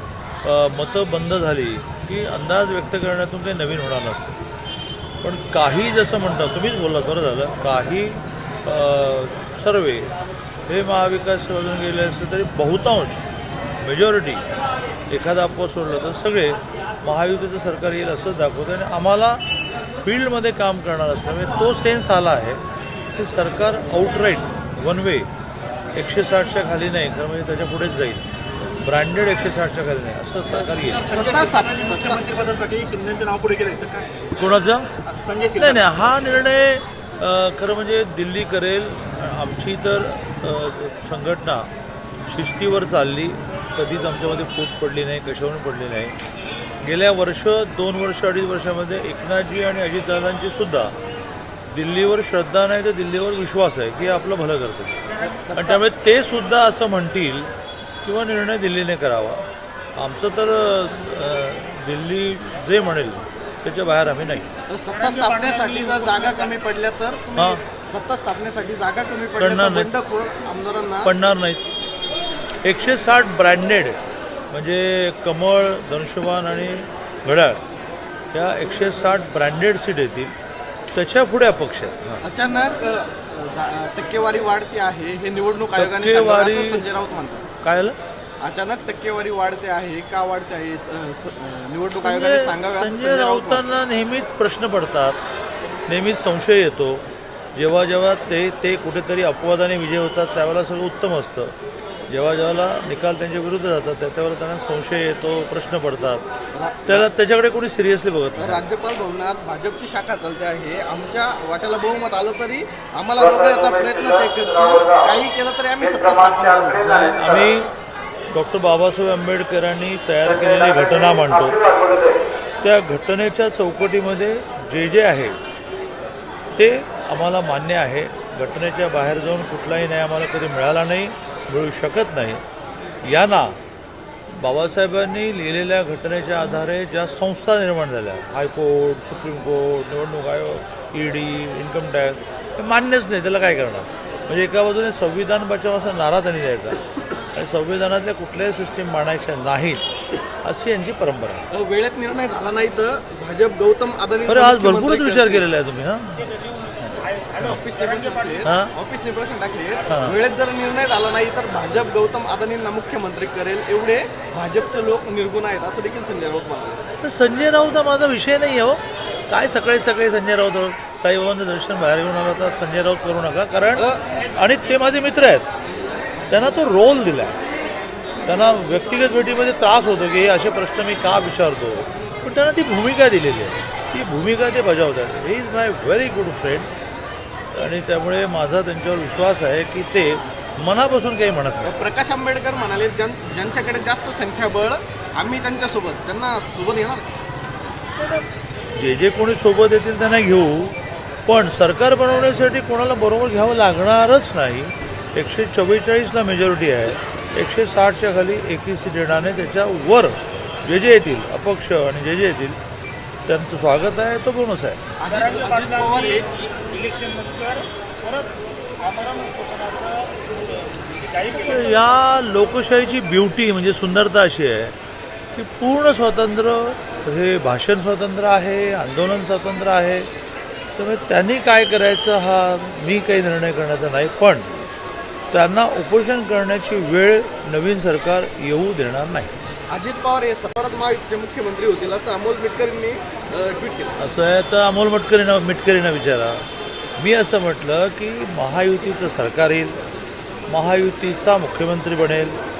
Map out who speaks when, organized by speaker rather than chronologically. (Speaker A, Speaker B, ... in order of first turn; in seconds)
Speaker A: 0.4-4.4, 5.2-10.1, 10.7-13.2, 13.8-14.4, 15.1-19.4, 20.0-22.6, 23.1-25.3, 25.9-31.1, 34.3-34.9, 35.5-41.7, 42.3-46.2, 46.8-50.9, 51.7-55.0, 55.5-57.5, 58.0-59.5, 60.0-64.5, 67.4-67.6, 69.4-69.9, 71.0-71.6, 72.6-74.0, 74.5-77.6, 78.3-80.3, 80.9-82.2, 85.8-86.8, 87.6-88.0, 92.0-95.2, 95.9-97.0, 97.6-101.5, 102.1-106.2, 106.9-108.6, 117.1-117.7, 118.3-121.8, 122.6-125.4, 126.6-132.4, 133.0-133.6, 134.3-146.8, 147.3-149.8, 150.4-151.5, 154.3-156.3, 158.5-158.7, 159.9-160.2, 167.0-175.5, 176.3-177.4, 178.2-186.7, 187.5-191.8, 198.0-200.8, 201.2-212.6, 213.2-214.8, 221.4-224.8, 225.3-230.1, 230.8-234.5, 235.3-239.3, 244.0-246.4, 247.0-249.8, 250.5-252.4
Speaker B: 30.9-34.1, 35.1-35.8, 55.1-55.4, 64.9-66.5, 156.2-158.4, 159.8-160.1, 215.1-221.8
Speaker C: 31.1-32.3, 55.2-55.8, 64.7-71.1, 82.2-87.4, 88.4-93.6, 106.5-107.1, 108.4-117.2, 151.5-155.5, 157.4-166.8, 173.7-174.0, 191.6-197.1, 215.0-216.3, 239.7-244.0